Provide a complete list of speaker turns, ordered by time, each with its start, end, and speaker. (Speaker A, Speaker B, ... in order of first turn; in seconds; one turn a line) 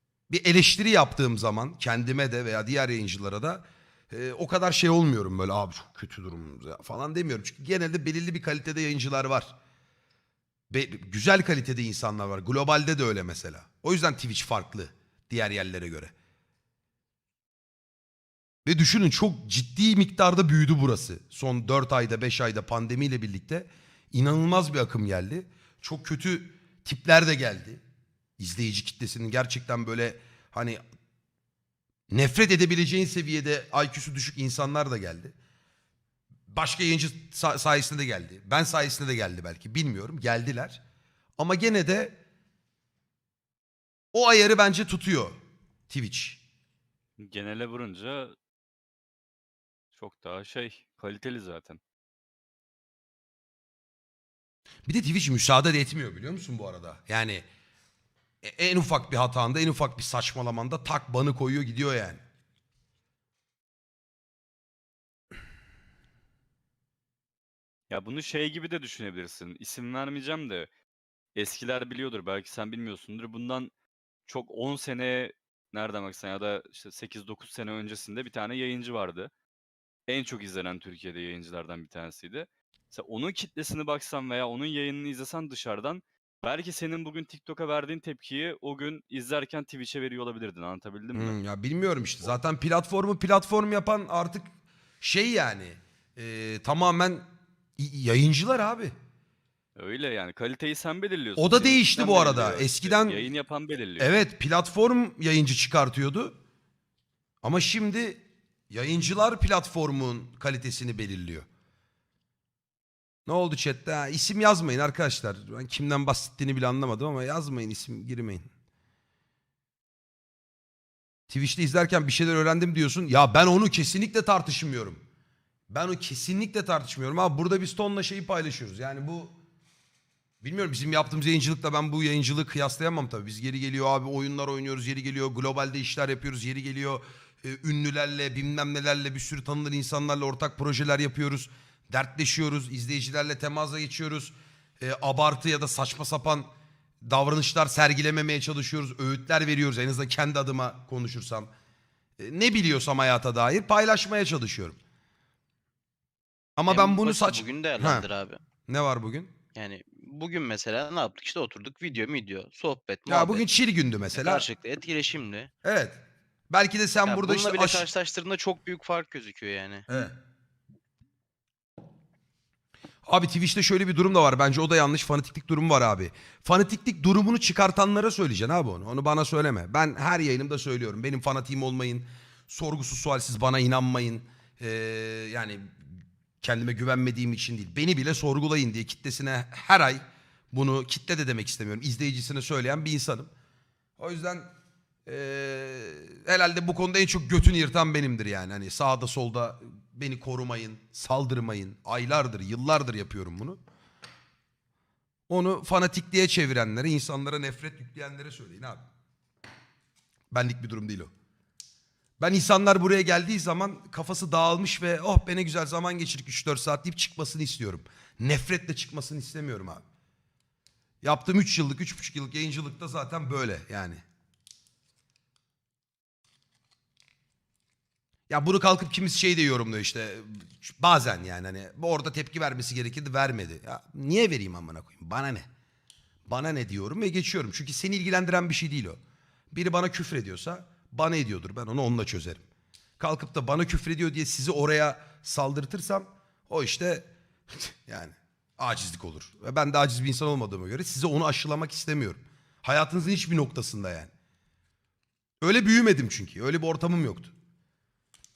Speaker A: 0.3-9.5
Speaker A: 10.7-16.1
Speaker A: 18.6-27.8
Speaker A: 28.4-30.8
Speaker A: 32.1-35.3
Speaker A: 36.5-40.8
Speaker A: 41.4-42.2
Speaker A: 44.1-46.4
Speaker B: 47.2-48.3
Speaker B: 49.9-51.8
Speaker A: 54.9-57.5
Speaker A: 58.4-62.2
Speaker B: 67.9-70.7
Speaker B: 71.3-73.7
Speaker B: 74.2-79.3
Speaker B: 80.1-91.3
Speaker A: 91.1-94.5
Speaker A: 95.0-98.9
Speaker B: 99.8-104.1
Speaker A: 101.4-103.3
Speaker A: 104.0-106.4
Speaker A: 107.4-111.5
Speaker A: 113.2-118.5
Speaker A: 121.3-125.0
Speaker A: 125.7-129.3
Speaker A: 130.4-146.5
Speaker A: 147.0-151.5
Speaker A: 152.2-154.8
Speaker A: 156.6-158.1
Speaker C: 156.7-158.4
Speaker A: 158.6-159.3
Speaker C: 159.5-163.5
Speaker A: 163.1-164.4
Speaker C: 164.1-165.5
Speaker A: 165.6-167.9
Speaker C: 167.0-169.9
Speaker A: 169.9-170.1
Speaker A: 173.0-185.8
Speaker A: 186.4-193.3
Speaker A: 194.0-194.5
Speaker A: 195.1-203.6
Speaker A: 205.3-208.8
Speaker A: 210.3-211.1
Speaker A: 212.2-219.8
Speaker A: 221.0-224.0
Speaker A: 228.3-235.5
Speaker A: 236.3-239.0
Speaker A: 239.5-242.4
Speaker A: 243.0-254.1
Speaker A: 255.4-257.3